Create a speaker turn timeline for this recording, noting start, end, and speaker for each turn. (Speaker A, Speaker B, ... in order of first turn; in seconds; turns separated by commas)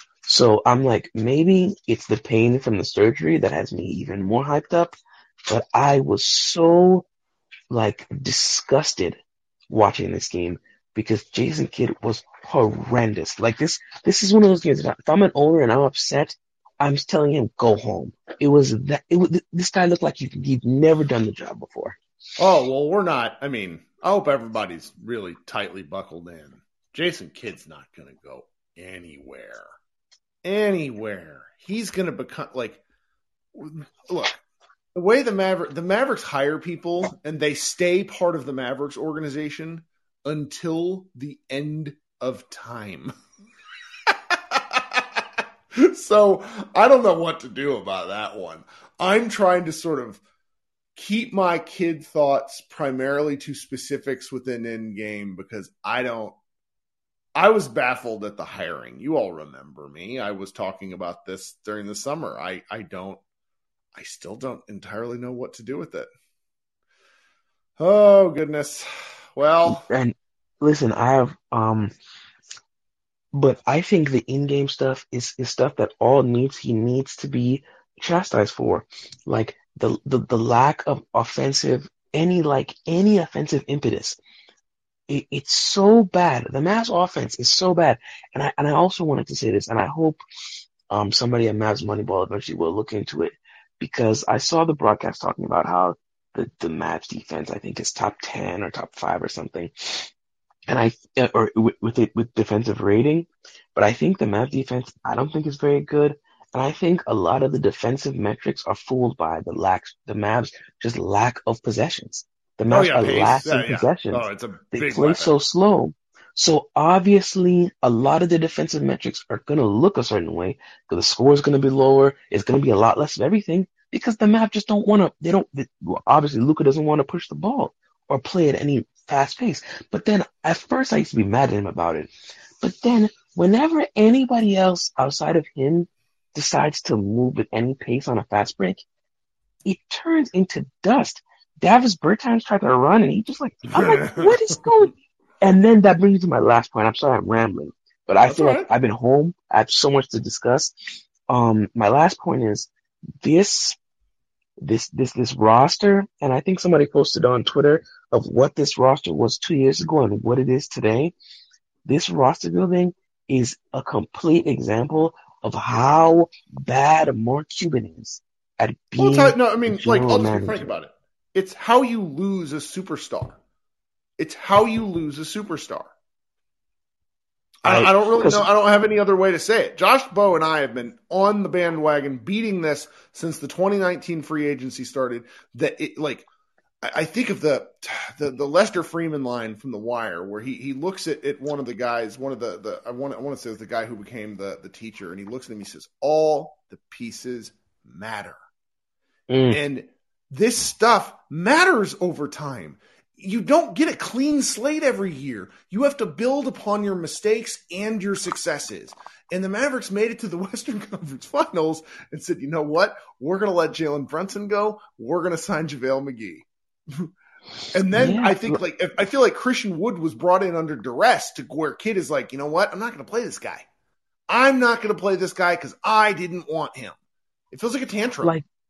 Speaker A: 0.2-7.0, Speaker A: 7.7-9.2, Speaker A: 9.7-22.0, Speaker B: 22.4-29.7, Speaker B: 30.4-32.8, Speaker B: 33.5-34.4, Speaker B: 34.9-43.1, Speaker B: 44.1-45.2, Speaker B: 45.7-50.2, Speaker B: 51.0-56.4, Speaker B: 57.3-63.2, Speaker B: 63.9-66.1, Speaker B: 67.8-69.8, Speaker A: 69.7-71.9, Speaker A: 73.3-84.2, Speaker A: 85.1-90.2, Speaker A: 90.9-100.1, Speaker A: 100.7-138.8, Speaker B: 112.7-115.3, Speaker A: 139.6-152.7, Speaker B: 143.7-144.4, Speaker B: 148.2-148.7, Speaker A: 153.2-153.8, Speaker A: 154.6-161.1, Speaker A: 161.8-170.7, Speaker B: 169.0-173.4, Speaker B: 174.2-175.9, Speaker A: 177.6-178.4, Speaker B: 177.6-186.2, Speaker B: 186.8-198.3, Speaker A: 199.3-199.6, Speaker B: 199.5-217.1, Speaker B: 217.7-223.7, Speaker A: 217.9-218.6, Speaker B: 224.3-226.9, Speaker B: 227.5-228.3